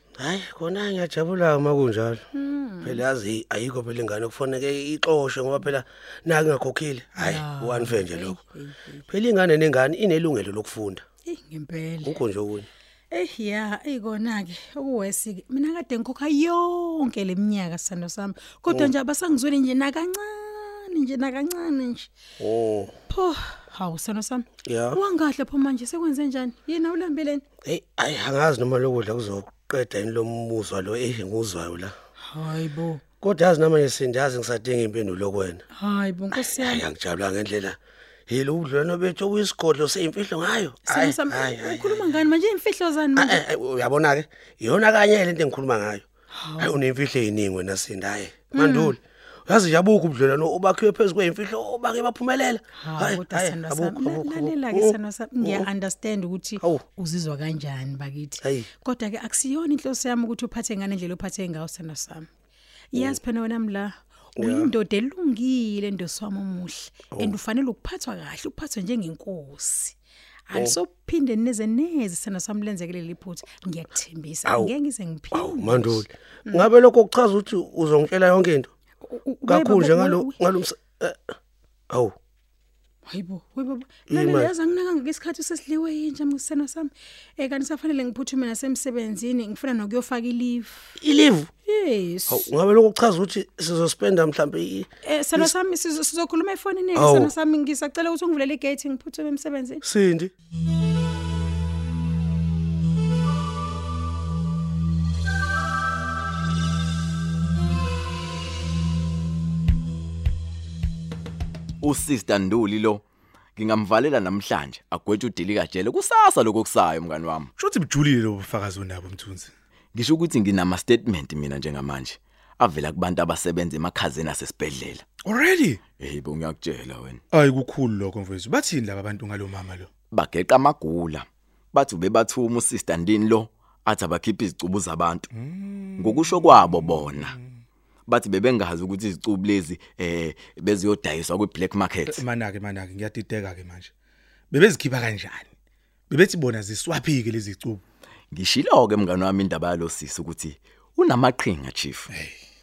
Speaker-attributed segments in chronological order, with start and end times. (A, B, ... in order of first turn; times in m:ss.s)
0:00.2-0:02.2 A
0:02.3-0:03.0 B
0:02.8-0:08.4 A
0:07.2-0:09.1 B
0:09.1-0:11.0 A
0:11.2-0:12.2 B
0:12.0-0:12.7 A
0:13.1-0:22.1 B
0:22.4-0:22.9 A
0:23.1-0:27.4 B
0:24.6-0:25.0 A
0:27.6-0:31.9 A
0:32.2-0:33.0 B
0:33.2-0:35.6 A
0:35.7-0:36.9 B
0:36.4-0:37.8 A
0:38.3-0:42.0 A
0:40.9-0:43.4 B
0:43.2-0:46.0 A
0:46.3-0:46.8 B
0:46.6-0:55.7 A
0:48.5-0:49.0 B
0:52.7-1:02.3 B
0:58.4-0:58.7 A
1:02.9-1:10.0 B
1:04.4-1:04.7 A
1:10.5-1:16.7 B
1:14.4-1:14.7 A
1:15.3-1:18.7 A
1:19.0-1:20.3 B
1:19.5-1:21.2 A
1:23.1-1:30.9 B
1:24.1-1:24.5 A
1:31.0-1:31.5 A
1:31.6-1:32.5 B
1:32.3-1:35.5 A
1:35.0-1:39.8 B
1:36.9-1:37.3 A
1:39.8-1:40.3 A
1:51.8-1:53.0 C
1:53.6-1:57.5 C
1:57.6-1:59.5 D
1:59.9-2:05.0 C
2:05.2-2:05.8 D
2:06.0-2:07.2 C
2:07.3-2:09.9 D
2:10.1-2:15.3 C
2:15.3-2:17.5 D
2:16.0-2:17.4 C
2:18.1-2:22.2 C
2:22.1-2:23.9 D
2:24.5-2:25.5 D
2:26.1-2:27.8 D
2:28.3-2:32.1 C
2:32.1-2:32.4 D